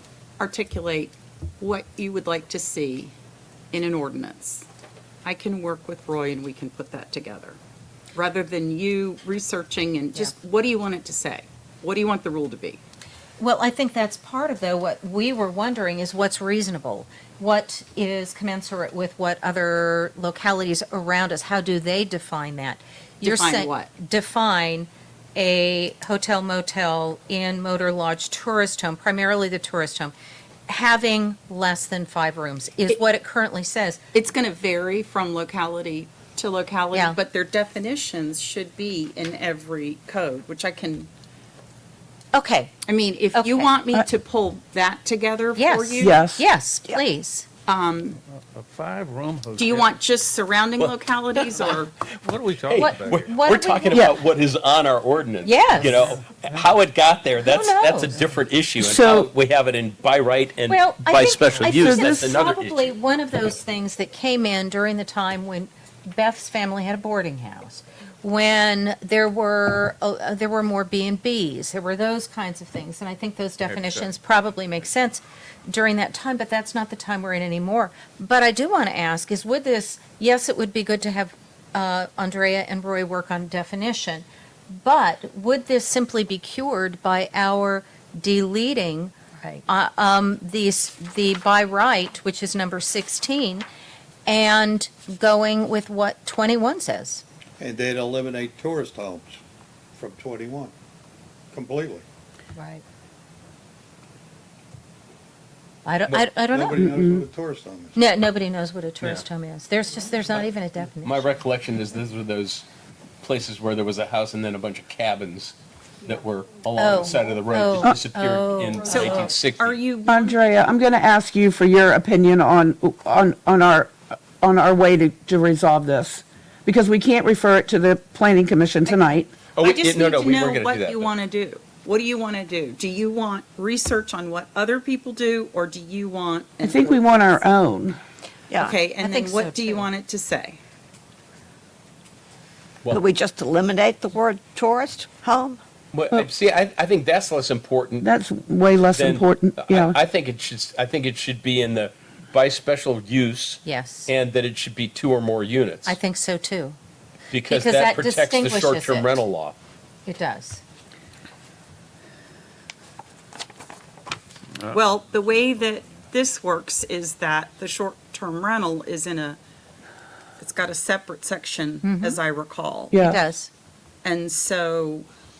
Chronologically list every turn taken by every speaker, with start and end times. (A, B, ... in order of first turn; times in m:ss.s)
0:00.4-0:03.1 A
0:03.7-0:04.6 A
0:05.2-0:07.6 A
0:08.1-0:12.8 A
0:13.4-0:30.1 B
0:23.2-0:23.7 A
0:30.7-0:34.0 B
0:34.1-0:41.1 A
0:36.9-0:37.2 B
0:42.3-0:42.8 B
0:42.8-0:46.2 A
0:43.3-0:43.7 B
0:45.6-0:47.5 B
0:46.0-0:46.4 C
0:47.7-0:48.2 A
0:48.3-0:49.9 D
0:49.6-0:51.9 A
0:52.2-0:53.3 D
0:52.6-1:02.9 E
0:52.8-0:54.2 B
0:55.4-0:56.0 B
0:57.4-0:58.1 B
0:58.8-0:59.3 C
1:00.7-1:33.7 B
1:01.6-1:02.4 C
1:13.7-1:14.1 D
1:34.3-1:37.2 B
1:37.6-1:39.4 F
1:40.0-1:40.7 F
1:41.5-1:42.0 F
1:42.6-1:42.8 B
1:45.8-1:47.0 B
1:46.5-1:48.0 F
1:46.8-1:47.2 C
1:48.0-1:51.3 B
1:51.0-1:52.7 E
1:53.2-1:59.8 E
1:56.8-1:59.3 B
1:58.9-2:00.4 A
2:00.1-2:09.3 C
2:09.6-2:11.1 E
2:09.6-2:17.4 A
2:16.6-2:18.0 C
2:18.5-2:18.8 G
2:18.6-2:20.6 A
2:18.9-2:19.9 B
2:22.9-2:25.6 G
2:25.9-2:28.1 E
2:28.0-2:30.0 C
2:28.9-2:36.0 E
2:33.6-2:34.1 B
2:35.8-2:36.8 B
2:37.3-2:39.6 E
2:37.4-2:39.3 B
2:40.1-2:40.6 B
2:44.7-2:49.4 A
2:50.4-2:53.0 A
2:51.8-2:52.2 B
2:52.9-2:53.2 C
2:53.0-2:53.5 B
2:54.0-2:55.1 A